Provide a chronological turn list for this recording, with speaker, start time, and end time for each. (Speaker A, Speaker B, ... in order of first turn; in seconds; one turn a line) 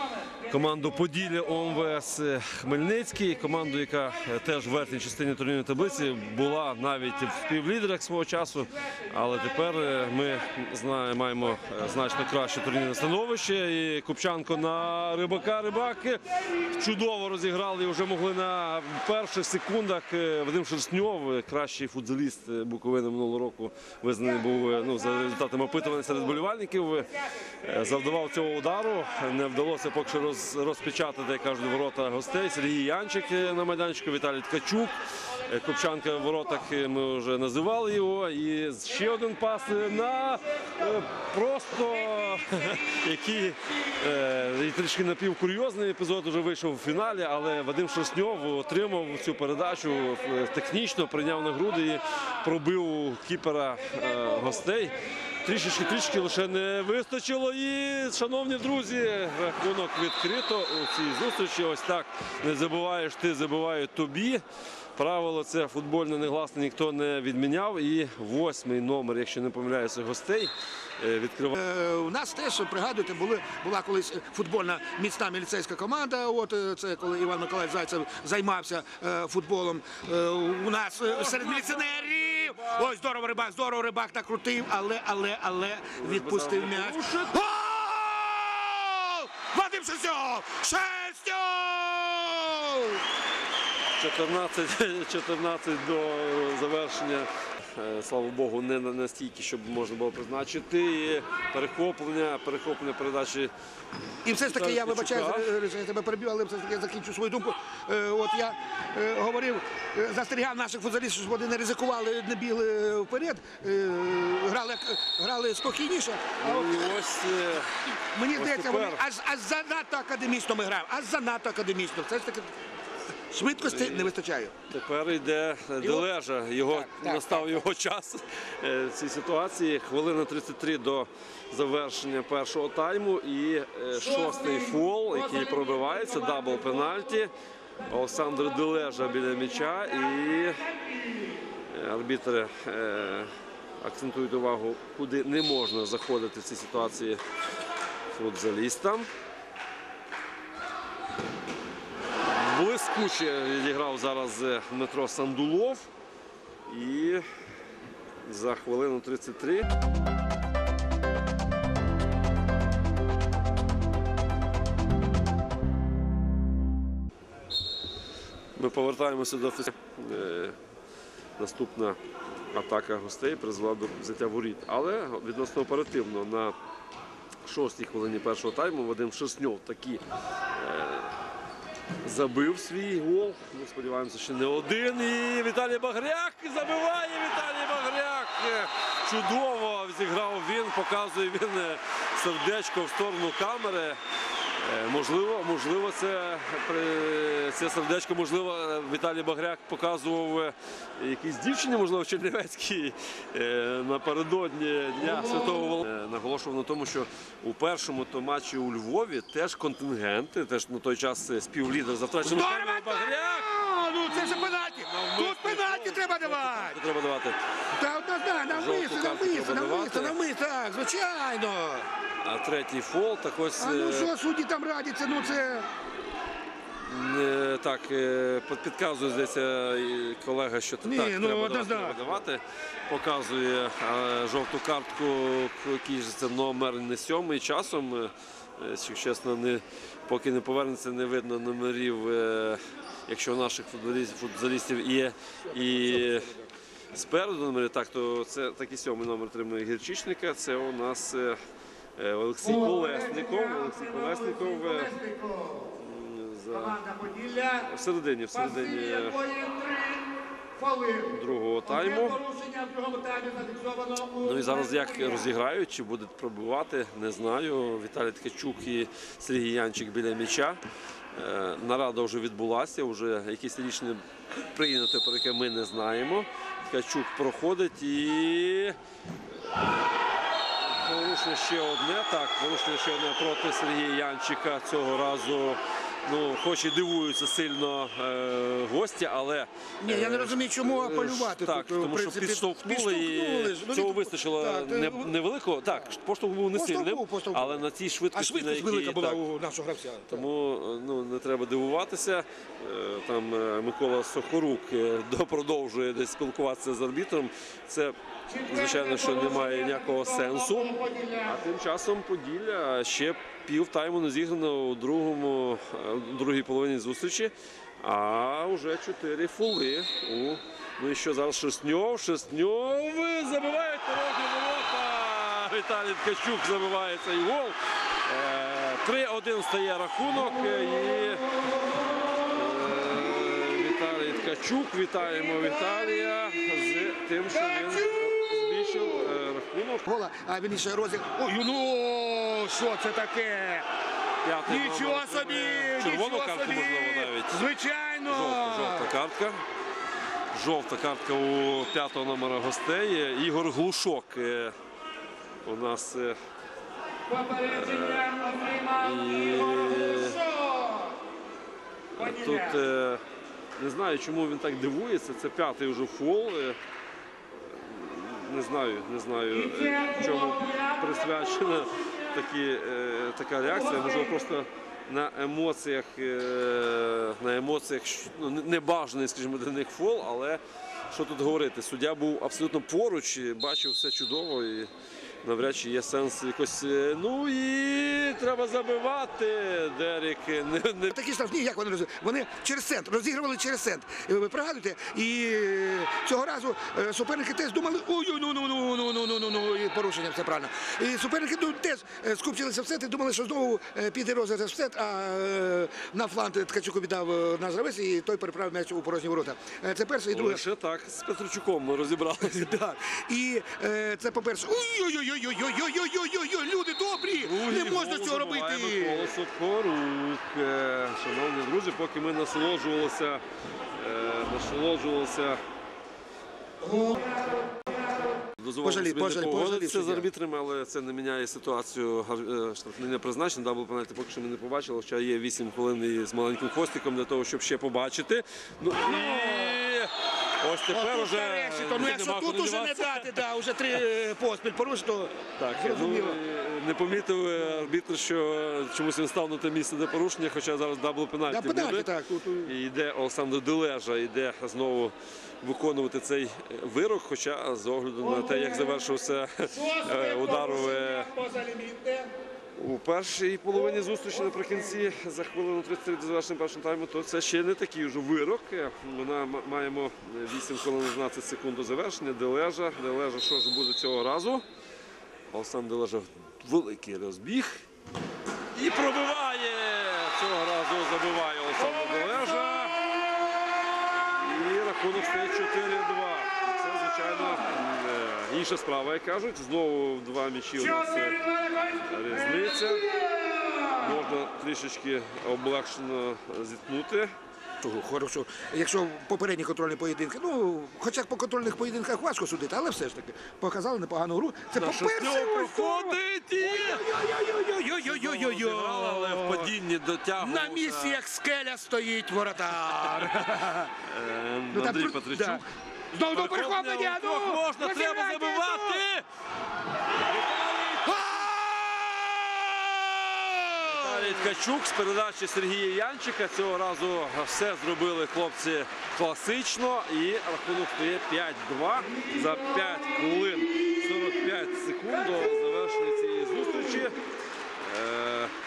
Speaker A: 0.4-64.4
Speaker A: 65.0-71.6
Speaker B: 71.5-93.0
Speaker A: 86.0-87.4
Speaker A: 94.0-103.5
Speaker B: 104.2-117.0
Speaker A: 104.4-105.5
Speaker A: 116.4-117.7
Speaker B: 118.0-122.5
Speaker A: 118.3-119.0
Speaker B: 123.3-124.5
Speaker A: 123.6-124.1
Speaker A: 124.7-137.3
Speaker B: 125.8-126.1
Speaker B: 126.7-127.7
Speaker A: 137.8-140.7
Speaker A: 141.7-147.2
Speaker A: 148.1-149.1
Speaker A: 152.2-155.9
Speaker A: 156.7-157.2
Speaker A: 158.2-159.7
Speaker A: 168.5-170.6
Speaker A: 171.4-172.0
Speaker A: 172.5-176.5
Speaker A: 177.4-180.0
Speaker A: 180.5-181.1
Speaker A: 182.0-194.0
Speaker A: 194.6-213.5
Speaker B: 212.2-216.8
Speaker A: 214.1-217.4
Speaker B: 217.8-221.9
Speaker A: 218.5-220.2
Speaker A: 222.2-224.1
Speaker B: 223.6-225.7
Speaker A: 226.8-246.3
Speaker B: 230.8-232.1
Speaker B: 245.5-246.4
Speaker A: 246.9-251.4
Speaker A: 252.0-255.0
Speaker B: 252.9-253.3
Speaker B: 254.4-255.7
Speaker A: 255.7-256.8
Speaker B: 256.7-257.6
Speaker A: 257.5-259.3
Speaker B: 259.1-261.1
Speaker A: 261.1-262.2
Speaker B: 261.6-264.9
Speaker A: 264.2-270.6
Speaker A: 271.1-278.8
Speaker A: 280.6-299.2
Speaker B: 289.8-295.1
Speaker B: 296.5-300.3
Speaker A: 300.1-331.3
Speaker A: 332.3-339.8
Speaker B: 339.8-343.6
Speaker A: 344.2-347.4
Speaker B: 344.5-348.9
Speaker A: 348.1-349.4
Speaker A: 350.3-354.5
Speaker A: 355.4-356.1
Speaker A: 357.2-360.4
Speaker A: 361.9-363.0
Speaker A: 363.6-366.6
Speaker A: 367.3-384.7
Speaker A: 385.2-391.0
Speaker B: 390.9-410.4
Speaker A: 410.1-412.5
Speaker B: 412.2-419.1
Speaker A: 417.1-423.2
Speaker A: 423.7-425.4
Speaker B: 426.6-427.0
Speaker A: 428.4-443.3
Speaker B: 428.6-430.1
Speaker B: 438.8-439.6
Speaker B: 440.7-446.2
Speaker A: 445.4-451.9
Speaker B: 451.3-452.5
Speaker A: 452.4-461.1
Speaker B: 460.3-462.1
Speaker A: 462.6-474.4
Speaker A: 475.3-477.6
Speaker A: 478.5-482.9
Speaker A: 484.2-492.9
Speaker A: 493.6-497.1
Speaker B: 497.6-509.5
Speaker A: 504.5-507.0
Speaker A: 507.7-511.0
Speaker B: 510.2-513.7
Speaker A: 513.8-515.4
Speaker B: 514.5-518.8
Speaker A: 516.1-519.0
Speaker A: 520.0-521.1
Speaker B: 520.8-524.3
Speaker A: 523.6-536.9
Speaker A: 537.6-538.3